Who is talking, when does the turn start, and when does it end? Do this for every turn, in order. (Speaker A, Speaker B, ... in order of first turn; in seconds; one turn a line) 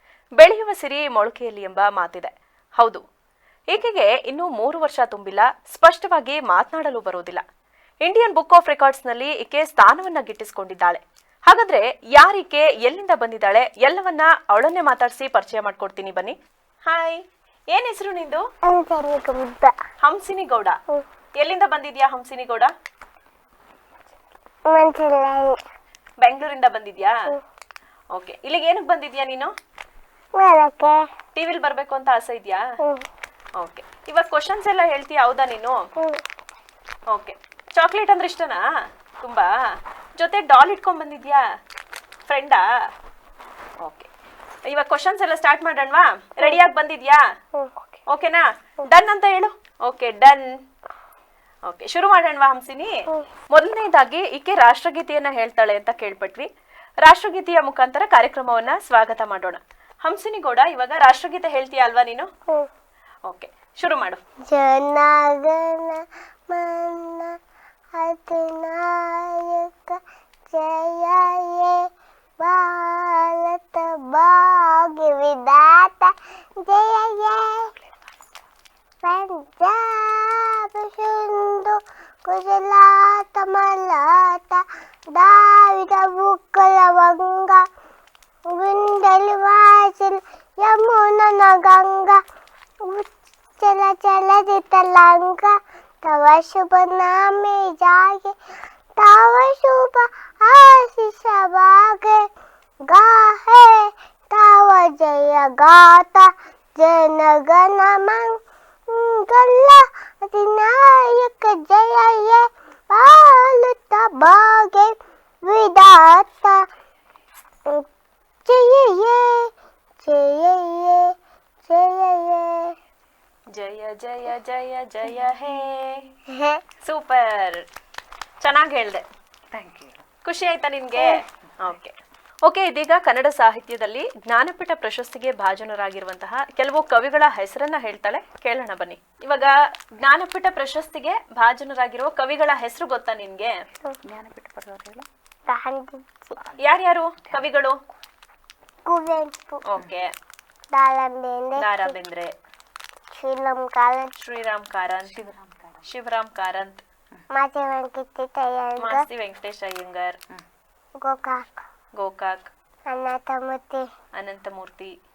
Speaker A: 0.4-3.0
Speaker A: 3.7-7.4
Speaker A: 8.0-18.5
Speaker B: 18.6-19.8
Speaker A: 20.0-20.8
Speaker A: 21.4-22.7
Speaker B: 24.7-25.6
Speaker A: 26.2-27.3
Speaker A: 28.1-29.5
Speaker B: 30.4-31.1
Speaker A: 31.3-32.7
Speaker B: 32.8-33.1
Speaker A: 33.6-35.9
Speaker A: 37.1-41.4
Speaker A: 42.3-42.7
Speaker A: 43.8-44.1
Speaker A: 44.6-47.2
Speaker A: 48.1-50.6
Speaker A: 51.6-56.5
Speaker A: 57.0-62.3
Speaker A: 63.2-64.2
Speaker B: 64.5-67.4
Speaker B: 67.9-77.7
Speaker C: 77.8-78.2
Speaker B: 79.0-87.7
Speaker B: 88.5-92.2
Speaker B: 92.8-98.4
Speaker B: 99.0-102.3
Speaker B: 102.8-116.7
Speaker B: 118.5-122.8
Speaker A: 123.5-126.1
Speaker B: 126.3-126.6
Speaker A: 126.8-127.6
Speaker A: 128.4-129.0
Speaker C: 129.5-130.1
Speaker A: 130.2-131.9
Speaker A: 132.4-143.6
Speaker C: 144.0-145.1
Speaker B: 145.5-146.3
Speaker C: 146.4-146.7
Speaker A: 146.6-147.8
Speaker C: 147.2-147.5
Speaker B: 148.8-149.6
Speaker A: 149.6-150.1
Speaker B: 150.7-151.9
Speaker A: 151.6-152.3
Speaker B: 153.1-154.1
Speaker A: 154.2-155.2
Speaker C: 155.1-155.8
Speaker A: 155.8-156.8
Speaker B: 157.3-159.0
Speaker A: 158.8-160.2
Speaker B: 161.0-161.5
Speaker A: 161.9-162.5
Speaker B: 162.8-163.9
Speaker A: 164.1-164.9